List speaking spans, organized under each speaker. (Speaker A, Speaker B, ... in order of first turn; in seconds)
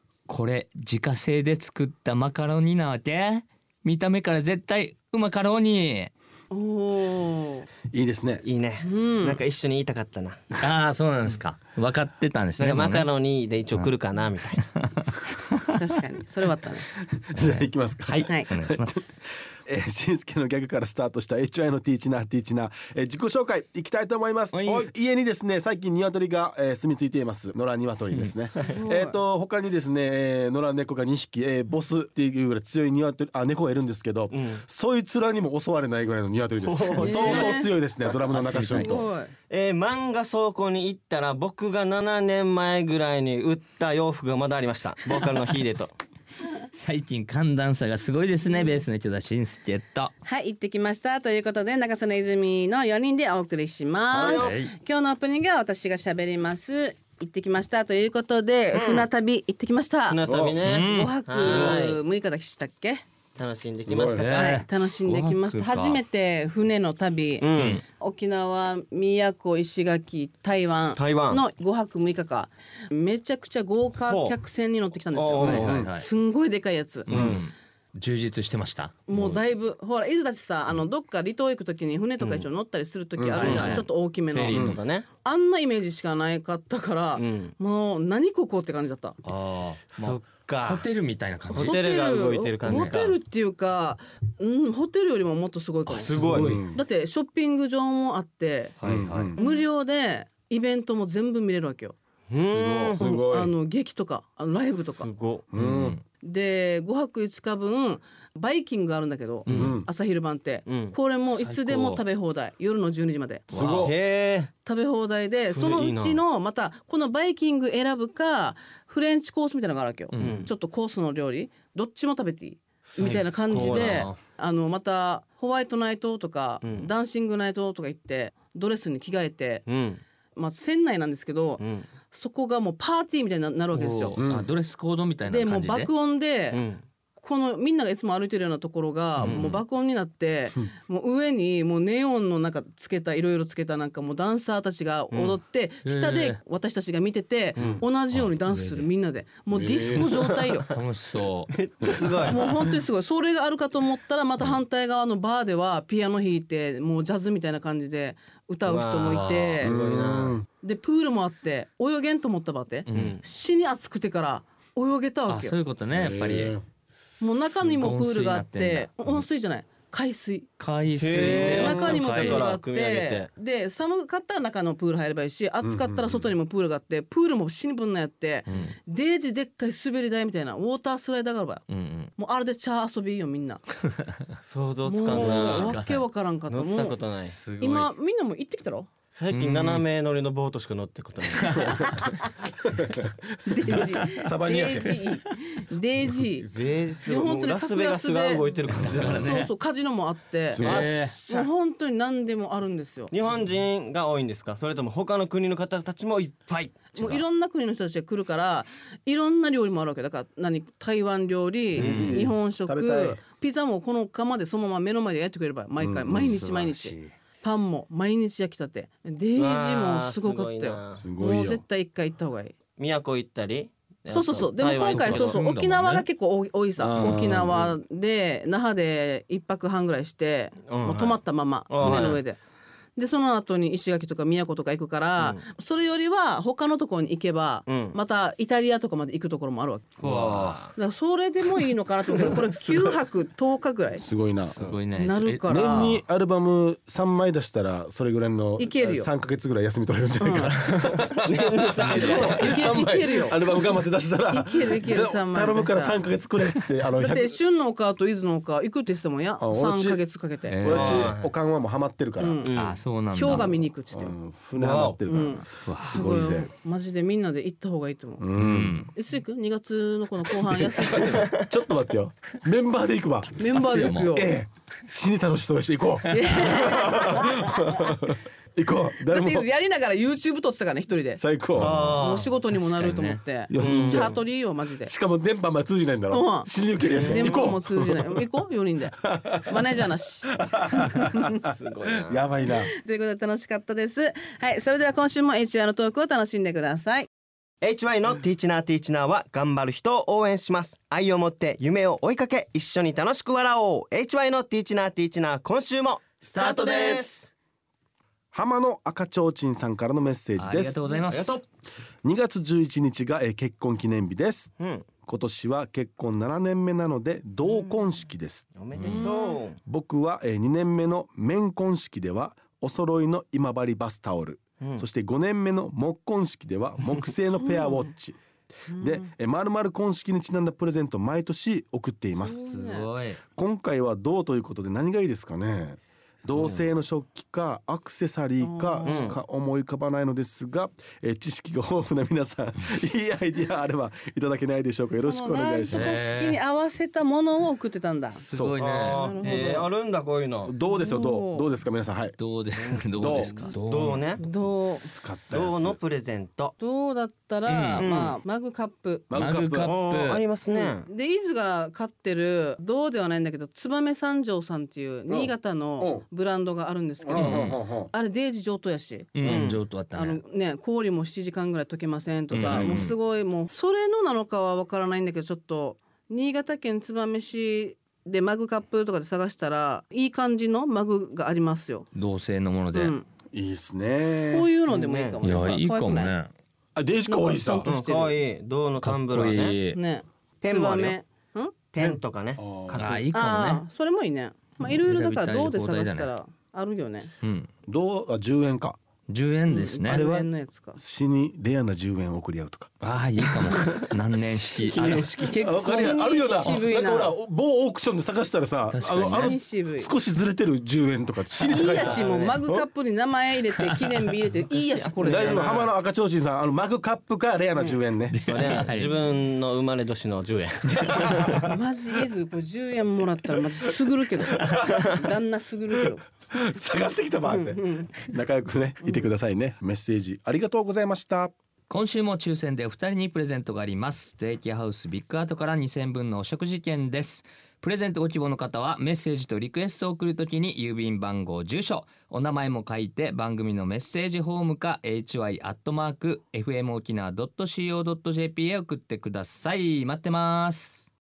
Speaker A: 0.3-6.1, 10.6-13.1, 14.7-15.6, 17.5-19.2, 24.5-24.9, 37.0-37.5, 38.3-39.0, 46.7-50.1, 54.3-54.7, 60.6-61.8, 64.1-66.0, 67.6-67.8, 75.4-76.1, 77.1-79.4, 83.3-83.9, 89.2-91.8, 92.7-93.1, 95.9-96.6, 98.8-99.4, 102.5-102.9, 105.5-106.0, 109.5-109.8, 111.3-112.0, 113.5-113.9, 120.1-120.5, 123.5-124.1, 133.7-135.9, 139.2-139.6, 145.8-146.4, 148.1-148.9, 150.3-151.5, 159.0-159.6, 162.9-163.2, 165.3-166.6, 167.6-169.3, 170.6-172.5, 178.5-178.8, 181.7-182.1, 185.1-186.0, 187.2-187.9, 189.3-189.9, 191.4-192.1, 193.7-194.1, 198.7-199.5, 200.6-201.2, 216.1-217.1, 224.8-226.1, 240.0-240.6, 244.5-245.9, 251.8-252.5, 260.5-261.1, 262.6-263.6, 265.6-265.9, 268.4-268.9, 273.5-274.1, 281.6-283.2, 306.2-307.3, 310.4-311.4, 318.8-319.1, 332.6-333.2, 345.7-346.4, 348.1-349.1, 352.2-354.1, 357.5-357.9, 359.1-360.2, 367.1-367.6, 369.1-370.2, 372.3-372.9, 381.9-382.9, 385.2-386.3, 388.8-389.8, 392.8-393.6, 394.7-396.1, 397.2-397.5, 399.1-400.0, 402.8-406.0, 408.7-409.4, 418.1-418.9, 420.6-421.4, 431.7-450.9
Speaker B: 6.5-7.7, 8.8-9.4, 15.8-16.9, 28.7-29.2, 37.0-37.7, 38.7-39.3, 48.5-48.8, 50.2-60.2, 60.8-63.0, 64.3-77.1, 79.1-89.2, 91.5-96.2, 96.7-98.8, 99.4-102.0, 103.0-105.1, 106.2-113.5, 114.6-129.6, 130.3-134.2, 135.2-136.6, 137.2-150.7, 152.2-159.7, 160.6-165.6, 167.2-170.5, 171.2-181.6, 182.2-183.6, 184.8-187.0, 187.6-188.9, 193.5-196.5, 197.0-200.6, 201.2-203.1, 207.0-222.6, 224.1-232.4, 233.0-239.9, 240.8-244.1, 244.9-246.0, 248.6-249.1, 250.2-250.6, 251.9-253.4, 254.3-256.0, 257.0-260.6, 262.2-262.5, 263.1-264.2, 265.1-268.2, 268.9-271.3, 273.4-274.4, 276.1-278.0, 279.0-281.2, 282.0-284.9, 286.1-291.3, 292.5-297.1, 306.4-307.1, 310.8-311.2, 319.0-319.4, 327.4-327.9, 328.7-329.1, 332.2-332.9, 338.4-339.1, 345.0-348.2, 348.9-349.7, 350.6-351.5, 354.2-354.9, 356.6-359.1, 360.5-381.9, 382.7-383.1, 384.3-386.1, 387.1-388.2, 389.7-391.6, 393.1-397.1, 399.5-400.8, 405.4-407.1, 409.1-409.9, 411.5-415.6, 421.4-426.0, 427.2-427.9, 428.8-429.1
Speaker C: 7.9-8.4, 17.1-19.1, 19.7-39.0, 60.2-60.6, 63.9-64.3, 75.4-75.9, 83.2-83.8, 84.5-84.8, 96.2-96.8, 98.8-99.4, 103.0-103.5, 105.5-106.0, 109.5-109.9, 113.5-113.9, 134.2-134.5, 149.5-150.2, 159.6-160.5, 165.9-166.6, 175.6-176.3, 185.1-185.6, 193.7-195.0, 200.5-200.9, 211.7-213.2, 215.8-216.3, 221.0-221.6, 226.8-227.6, 244.0-244.6, 245.5-257.4, 259.4-260.0, 260.6-262.4, 263.9-266.5, 268.2-268.8, 270.6-279.5, 281.2-282.0, 283.5-284.2, 284.8-288.2, 289.0-291.5, 292.0-292.7, 308.3-310.8, 312.0-314.5, 315.1-319.1, 319.7-328.2, 328.8-332.6, 333.4-346.0, 348.3-348.6, 350.4-352.2, 353.0-353.5, 354.3-355.8, 359.1-359.7, 365.1-366.0, 367.0-367.9, 372.4-372.8, 383.3-384.5, 386.8-387.7, 391.8-392.9, 397.7-398.8, 399.9-402.7, 403.5-403.8, 404.7-412.7, 415.0-418.2, 424.3-424.9, 426.3-431.3
Speaker D: 8.4-10.6, 12.6-14.6, 34.3-34.6, 36.6-37.5, 38.1-38.4, 39.5-45.9, 54.1-54.6, 58.7-59.1, 60.1-62.0, 63.4-64.3, 67.4-67.8, 71.0-71.4, 74.1-74.4, 75.1-75.8, 77.1-77.4, 82.2-82.5, 83.4-85.1, 87.2-87.5, 89.9-90.9, 91.5-93.2, 96.0-96.6, 102.3-103.0, 105.0-105.5, 110.7-111.0, 113.8-114.5, 115.5-116.2, 120.2-120.5, 122.9-124.2, 126.6-126.9, 129.7-130.0, 131.6-131.9, 136.5-136.8, 145.1-145.4, 151.5-152.4, 158.7-160.4, 162.9-163.2, 171.0-173.3, 184.4-185.8, 186.5-187.4, 189.1-191.8, 196.4-199.4, 200.6-201.5, 203.1-207.2, 211.8-212.2, 219.4-221.1, 222.8-225.4, 227.0-227.8, 230.7-232.2, 235.2-235.5, 237.7-238.0, 240.0-240.7, 251.3-252.6, 260.7-261.3, 262.4-262.8, 264.5-265.0, 270.8-271.2, 281.6-282.3, 283.6-284.2, 286.9-287.5, 291.5-292.2, 297.6-307.1, 311.1-311.4, 314.6-314.9, 318.6-319.6, 336.4-336.7, 338.9-339.2, 348.6-350.5, 352.6-354.2, 355.3-356.6, 357.8-358.2, 359.6-360.9, 369.2-369.6, 384.7-385.2, 387.6-389.6, 390.4-391.0, 391.7-393.1, 404.6-405.4, 411.6-412.4, 414.6-415.7, 418.3-421.2